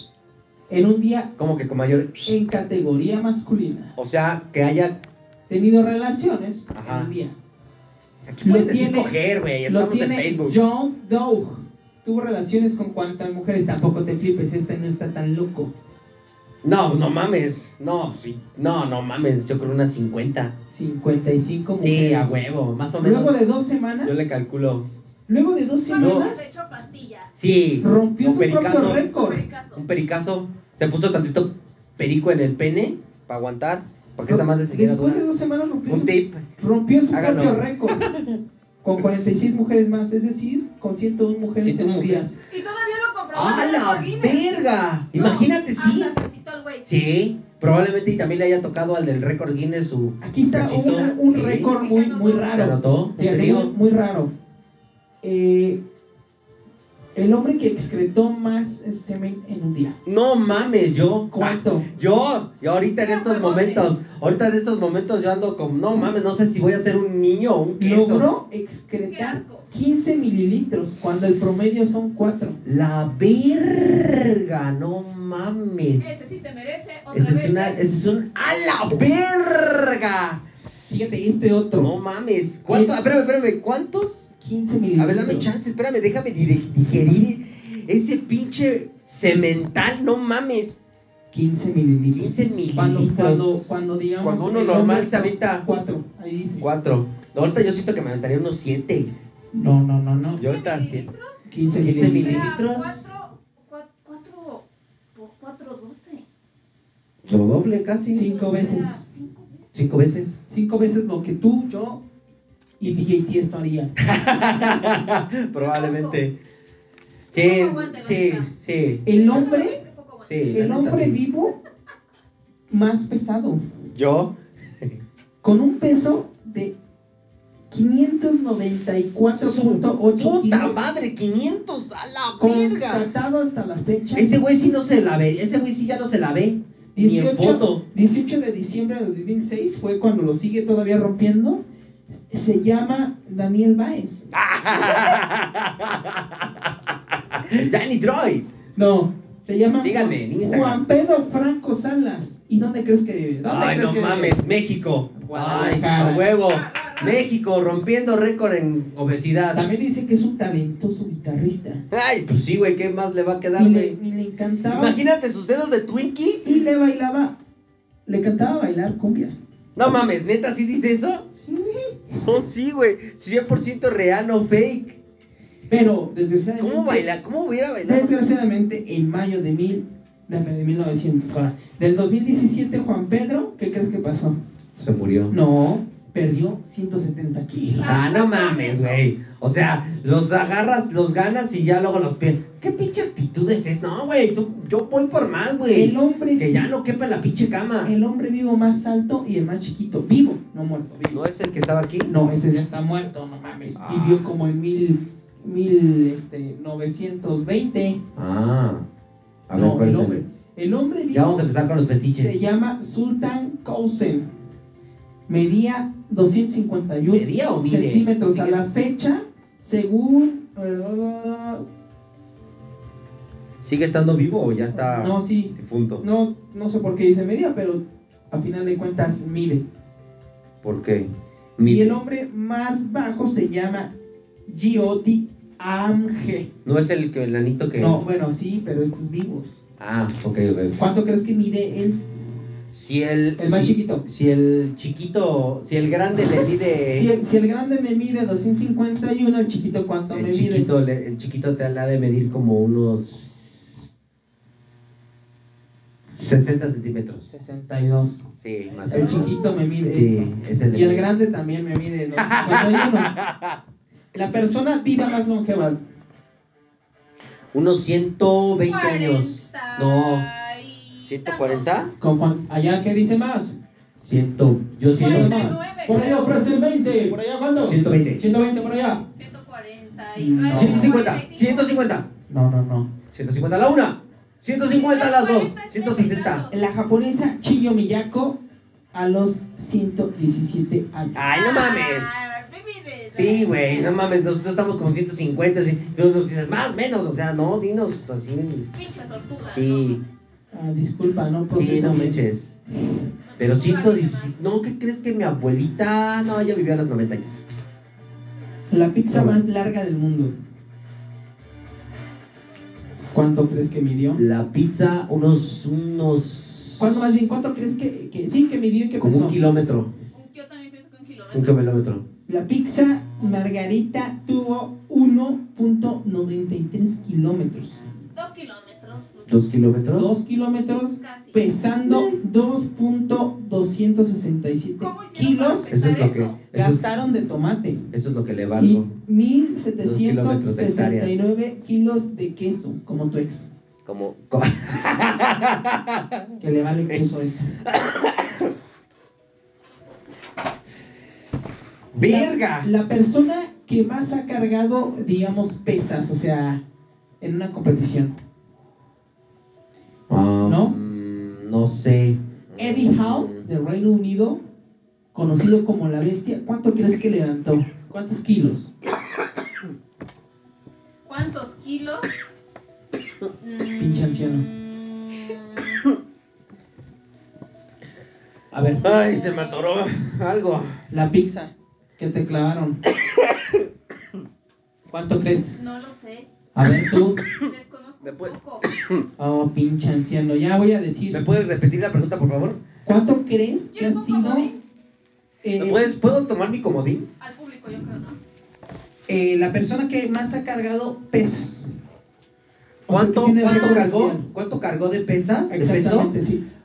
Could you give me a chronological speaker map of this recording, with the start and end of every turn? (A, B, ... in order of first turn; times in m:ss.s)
0:00.7-0:01.3 A
0:01.4-0:02.4 B
0:02.3-0:04.0 A
0:04.0-0:05.0 B
0:05.5-0:07.3 A
0:06.7-0:07.1 B
0:08.3-0:10.6 B
0:08.4-0:09.1 A
0:09.6-0:15.7 A
0:16.6-0:20.5 B
0:20.7-0:22.3 A
0:21.8-0:23.4 B
0:23.0-0:24.1 A
0:24.0-0:24.9 B
0:25.3-0:26.4 A
0:25.9-0:27.3 C
0:26.0-0:26.3 B
0:27.4-0:29.1 B
0:27.8-0:29.4 A
0:28.9-0:29.8 C
0:29.7-0:35.2 B
0:34.3-0:38.0 A
0:35.9-0:36.5 B
0:37.1-0:38.4 B
0:38.8-0:42.4 A
0:41.6-0:42.3 B
0:42.5-0:44.5 C
0:43.3-0:46.2 B
0:45.1-0:46.9 C
0:46.8-0:51.7 B
0:50.2-0:54.3 A
0:51.7-0:52.6 C
0:52.5-0:53.7 B
0:55.2-0:55.8 A
0:57.2-1:00.0 A
1:00.0-1:08.3 B
1:01.3-1:01.9 A
1:03.0-1:03.9 C
1:07.8-1:12.6 A
1:09.1-1:09.7 C
1:12.6-1:16.2 B
1:16.0-1:17.8 C
1:17.1-1:20.4 B
1:20.9-1:21.9 A
1:21.7-1:24.3 B
1:22.7-1:23.0 A
1:24.4-1:25.5 A
1:25.0-1:30.8 B
1:31.3-1:36.7 A
1:32.1-1:35.6 B
1:36.6-1:39.1 B
1:39.5-1:40.4 A
1:40.3-1:46.2 C
1:40.4-1:41.1 B
1:41.5-1:42.5 A
1:41.8-1:43.0 B
1:47.2-1:48.3 B
1:48.1-1:49.0 A
1:48.1-1:49.9 C
1:49.7-1:50.4 B
1:50.5-1:52.0 A
1:52.8-1:53.9 A
1:54.0-1:56.4 B
1:55.6-1:56.2 C
1:57.3-1:58.5 C
1:57.3-1:59.1 B
1:59.0-1:59.8 A
1:59.1-2:00.4 C
2:00.3-2:01.2 B
2:00.5-2:01.6 A
2:02.7-2:03.6 A
2:04.0-2:05.0 B
2:05.4-2:06.8 A
2:07.7-2:10.8 A
2:09.3-2:13.1 B
2:12.4-2:14.4 A
2:14.2-2:17.8 B
2:17.0-2:21.6 A
2:22.3-2:24.3 A
2:24.3-2:28.5 B
2:28.8-2:34.4 A
2:29.8-2:30.8 B
2:33.4-2:39.7 B
2:35.2-2:36.3 A
2:36.5-2:37.2 C
2:39.5-2:41.8 A
2:41.9-2:44.0 B
2:43.6-2:45.0 A
2:44.7-2:46.6 B
2:46.4-2:47.4 A
2:48.1-2:49.4 A
2:49.8-2:51.3 B
2:51.4-2:52.3 A
2:52.2-2:55.0 B
2:55.7-2:57.1 A
2:56.6-2:58.2 B
2:57.8-3:04.4 A
3:04.8-3:05.4 B
3:05.3-3:07.9 A
3:07.8-3:09.0 C
3:07.8-3:17.9 B
3:15.7-3:16.7 A
3:17.8-3:21.2 A
3:21.0-3:22.2 B
3:22.1-3:28.0 A
3:23.8-3:24.3 B
3:28.2-3:28.8 B
3:29.5-3:30.2 B
3:29.6-3:31.5 A
3:31.1-3:32.3 B
3:32.2-3:34.3 A
3:35.3-3:41.6 A
3:37.1-3:38.6 B
3:43.6-3:46.0 B
3:44.7-3:49.6 A
3:50.6-3:52.0 B
3:51.6-3:53.9 A
3:54.5-3:56.5 A
3:56.6-3:58.0 B
3:57.8-3:59.6 A
3:59.8-4:00.8 B
4:00.8-4:02.0 A
4:02.7-4:07.1 B
4:03.4-4:04.0 A
4:06.9-4:10.7 A
4:10.1-4:13.8 B
4:16.2-4:17.3 B
4:17.3-4:18.2 A
4:18.4-4:21.1 B
4:18.9-4:19.6 C
4:18.9-4:23.1 A
4:22.2-4:23.6 B
4:24.1-4:25.8 A
4:27.5-4:30.3 B
4:28.6-4:31.9 C
4:31.0-4:31.9 B
4:32.0-4:33.6 A
4:34.0-4:35.6 B
4:34.9-4:36.4 C
4:34.9-4:39.0 A
4:37.6-4:38.3 B
4:39.2-4:41.9 C
4:40.2-4:41.0 A
4:40.5-4:42.1 B
4:42.3-4:42.9 A
4:43.1-4:46.5 B
4:44.6-4:46.6 C
4:46.5-4:48.4 A
4:48.9-4:51.2 A
4:51.2-4:52.1 B
4:51.2-4:54.1 C
4:53.1-4:58.7 B
4:58.7-5:00.0 C
4:59.5-5:00.0 B
5:00.5-5:02.2 A
5:01.5-5:02.6 B
5:03.3-5:04.4 C
5:03.4-5:07.4 B
5:08.7-5:10.3 A
5:09.1-5:09.4 B
5:13.1-5:14.2 A
5:14.2-5:17.2 B
5:16.8-5:19.4 A
5:19.0-5:19.9 B
5:20.1-5:21.6 C
5:21.3-5:22.0 B
5:22.3-5:27.8 A
5:28.1-5:29.5 C
5:29.3-5:30.1 B
5:29.9-5:35.7 A
5:31.0-5:31.4 C
5:34.8-5:36.4 C
5:35.7-5:36.8 B
5:36.5-5:37.8 A
5:37.9-5:38.9 B
5:38.6-5:43.5 A
5:39.8-5:41.1 B
5:43.9-5:46.2 B
5:46.4-5:47.6 A
5:47.6-5:48.5 B
5:51.9-5:52.7 B
5:52.0-5:56.6 A
5:57.2-5:58.2 A
6:00.1-6:03.5 B
6:00.4-6:00.8 A
6:02.6-6:04.4 A
6:05.1-6:08.7 A
6:11.1-6:12.2 C
6:13.4-6:15.8 C
6:13.8-6:14.5 A
6:18.5-6:18.8 A
6:18.6-6:19.7 C
6:18.8-6:20.8 B
6:20.9-6:22.8 A
6:23.0-6:23.6 B
6:24.9-6:25.6 A
6:25.5-6:26.3 C
6:26.6-6:27.2 A
6:27.4-6:28.7 C
6:28.0-6:29.0 B
6:29.2-6:31.2 A
6:31.1-6:32.6 B
6:32.8-6:34.5 A
6:33.7-6:34.6 C
6:35.4-6:36.0 A
6:35.6-6:37.1 B
6:37.2-6:38.2 C
6:39.1-6:41.8 A
6:42.9-6:44.3 A
6:42.9-6:46.1 B
6:43.4-6:43.8 C
6:45.5-6:46.4 A